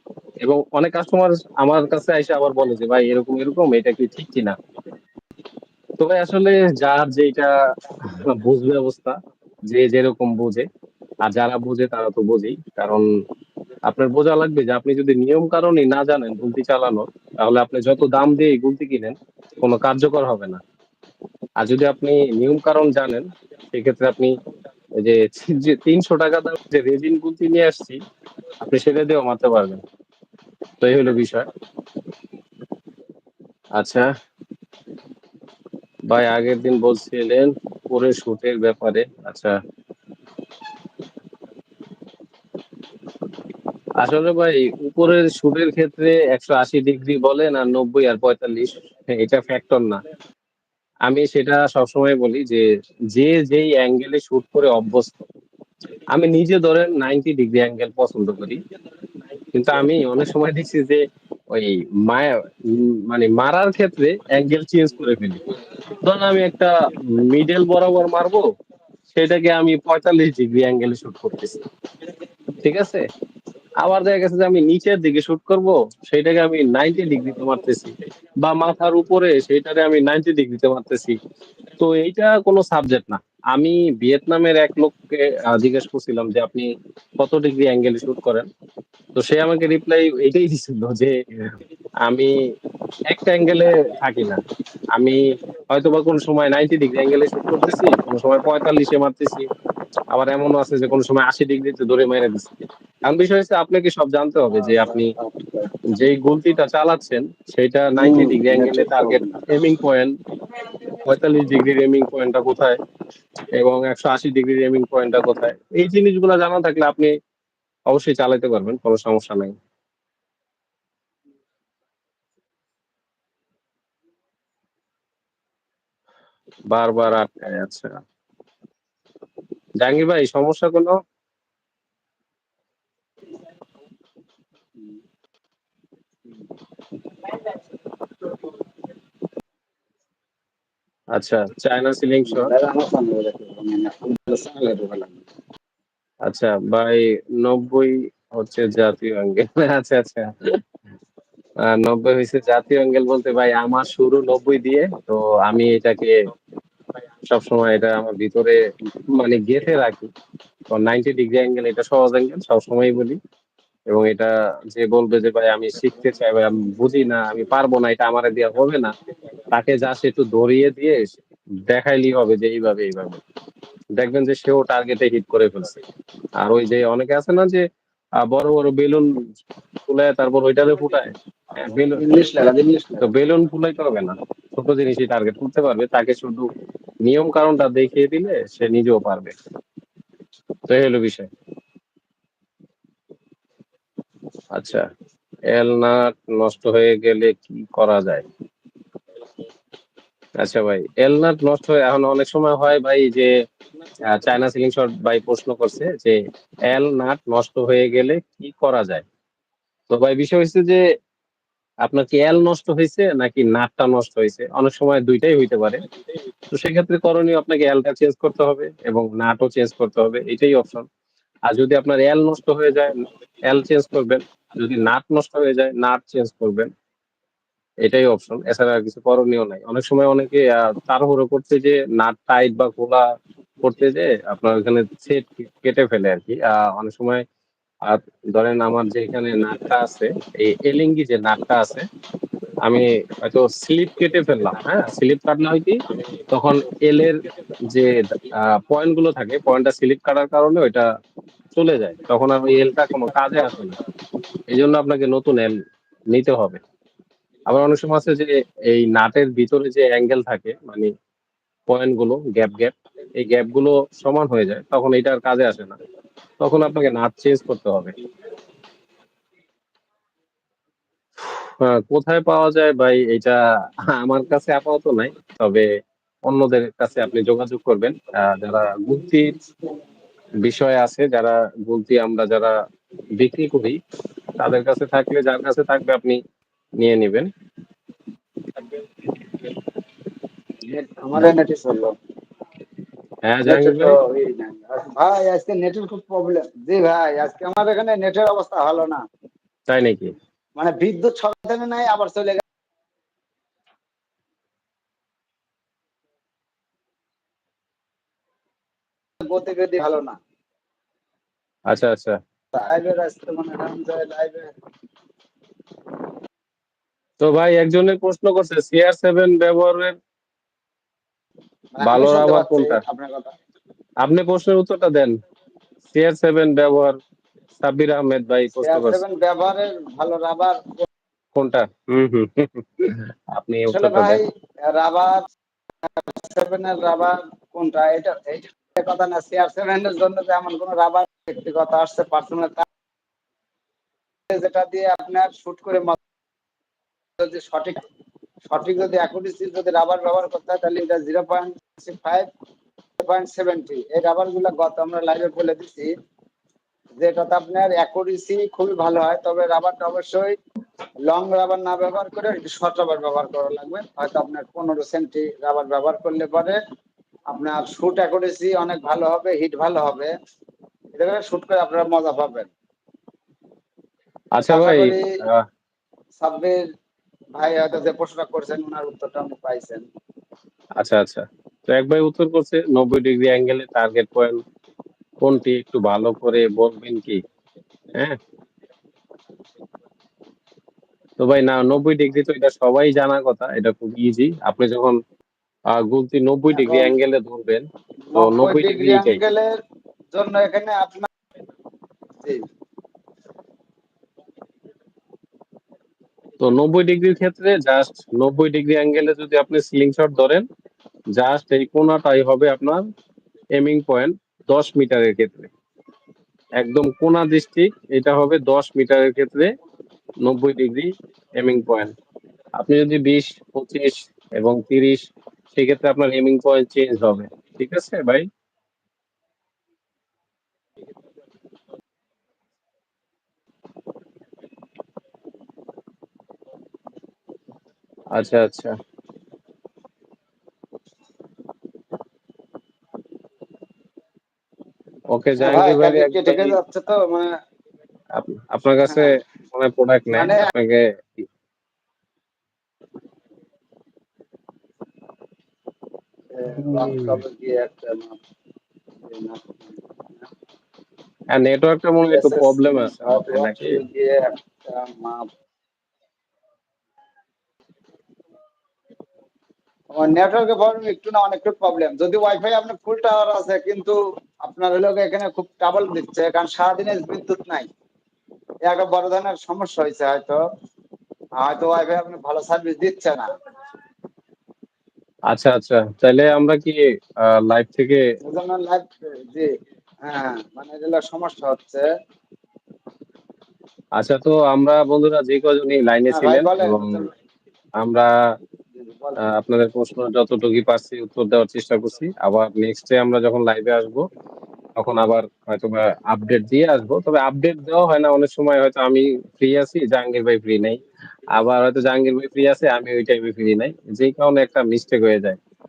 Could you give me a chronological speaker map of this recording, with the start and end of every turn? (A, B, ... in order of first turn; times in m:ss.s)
0:00.4-0:04.6 A
0:06.0-0:10.7 A
0:11.2-0:13.1 A
0:13.9-0:20.6 A
0:21.6-0:24.3 A
0:25.0-0:28.0 A
0:28.6-0:29.8 A
0:30.8-0:31.5 A
0:33.8-0:34.1 A
0:36.1-0:39.6 A
0:44.0-0:50.0 A
0:51.1-0:55.3 A
0:56.1-0:58.6 A
0:59.5-1:05.4 A
1:06.0-1:08.5 A
1:09.1-1:11.6 A
1:12.6-1:13.0 A
1:13.8-1:21.2 A
1:21.8-1:28.5 A
1:29.2-1:32.4 A
1:33.1-1:34.4 A
1:35.0-1:39.5 A
1:40.1-1:42.5 A
1:43.0-1:45.1 A
1:44.5-1:45.7 B
1:45.9-1:50.1 A
1:48.0-1:49.4 B
1:50.9-1:52.8 A
1:53.5-1:57.1 A
1:57.9-1:59.6 A
2:06.7-2:08.0 A
2:09.8-2:11.0 A
2:21.1-2:22.5 A
2:22.3-2:25.2 B
2:26.3-2:30.6 A
2:31.6-2:36.2 A
2:37.3-2:40.1 A
2:40.7-2:43.2 A
2:43.9-2:48.9 A
2:49.5-2:53.2 A
2:54.0-2:55.8 A
2:56.4-2:57.6 A
2:58.2-2:59.3 A
2:59.9-3:02.1 A
3:01.9-3:03.1 B
3:03.0-3:06.5 A
3:07.0-3:09.3 A
3:10.7-3:11.3 A
3:14.5-3:14.9 A
3:15.5-3:18.3 A
3:20.4-3:23.3 A
3:24.1-3:29.0 A
3:29.9-3:30.8 A
3:31.8-3:35.8 A
3:36.5-3:40.9 A
3:41.5-3:42.9 A
3:43.5-3:46.7 A
3:47.8-3:53.1 A
3:53.6-3:57.2 A
3:57.8-4:01.9 A
4:02.6-4:10.8 A
4:11.5-4:13.8 A
4:14.5-4:15.6 A
4:16.1-4:16.6 A
4:17.5-4:20.9 A
4:21.7-4:25.8 A
4:26.4-4:27.9 A
4:31.2-4:33.4 A
4:33.9-4:35.7 A
4:36.3-4:39.4 A
4:40.4-4:42.6 A
4:43.2-4:43.8 A
4:44.4-4:46.2 A
4:46.8-4:47.3 A
4:50.7-4:52.0 B
4:53.2-4:54.0 A
4:53.5-4:59.0 B
4:59.7-5:00.1 A
5:00.6-5:02.4 B
5:09.2-5:10.2 B
5:11.7-5:12.2 A
5:12.5-5:14.5 B
5:17.2-5:20.0 A
5:21.8-5:23.3 B
5:21.8-5:22.8 A
5:24.0-5:25.2 A
5:25.9-5:27.0 A
5:27.6-5:29.0 A
5:28.6-5:30.9 B
5:31.4-5:34.2 A
5:33.7-5:35.3 B
5:35.8-5:42.7 B
5:44.3-5:46.0 B
5:47.2-5:47.8 B
5:48.5-5:52.3 B
5:53.0-5:55.9 B
5:57.0-6:00.4 B
6:01.1-6:06.6 B
6:07.3-6:10.1 B
6:11.0-6:12.5 B
6:14.4-6:15.4 A
6:14.5-6:15.1 B
6:16.2-6:16.6 B
6:17.4-6:19.8 B
6:20.8-6:24.4 A
6:25.2-6:27.2 A
6:27.9-6:28.2 A
6:31.2-6:35.0 A
6:35.7-6:39.2 A
6:36.5-6:37.0 B
6:38.1-6:39.5 B
6:40.1-6:41.1 B
6:46.4-6:50.5 A
6:51.2-6:52.8 A
6:53.6-6:55.5 A
6:56.6-6:59.5 A
7:00.2-7:01.9 A
7:02.6-7:08.3 A
7:18.1-7:18.8 A
7:25.1-7:26.6 A
7:25.4-7:27.3 B
7:28.1-7:30.8 A
7:28.9-7:29.2 B
7:30.1-7:30.5 B
7:36.3-7:38.2 B
7:36.5-7:37.2 A
7:39.0-7:39.9 B
7:41.3-7:43.8 A
7:42.1-7:45.3 B
7:49.9-7:57.7 B
7:58.6-8:00.4 B
8:01.4-8:03.3 B
8:05.3-8:08.0 A
8:08.3-8:09.5 B
8:10.0-8:11.9 B
8:14.0-8:17.0 A
8:16.1-8:17.1 B
8:17.8-8:18.1 A
8:18.8-8:19.2 B
8:19.2-8:24.1 A
8:24.8-8:35.4 A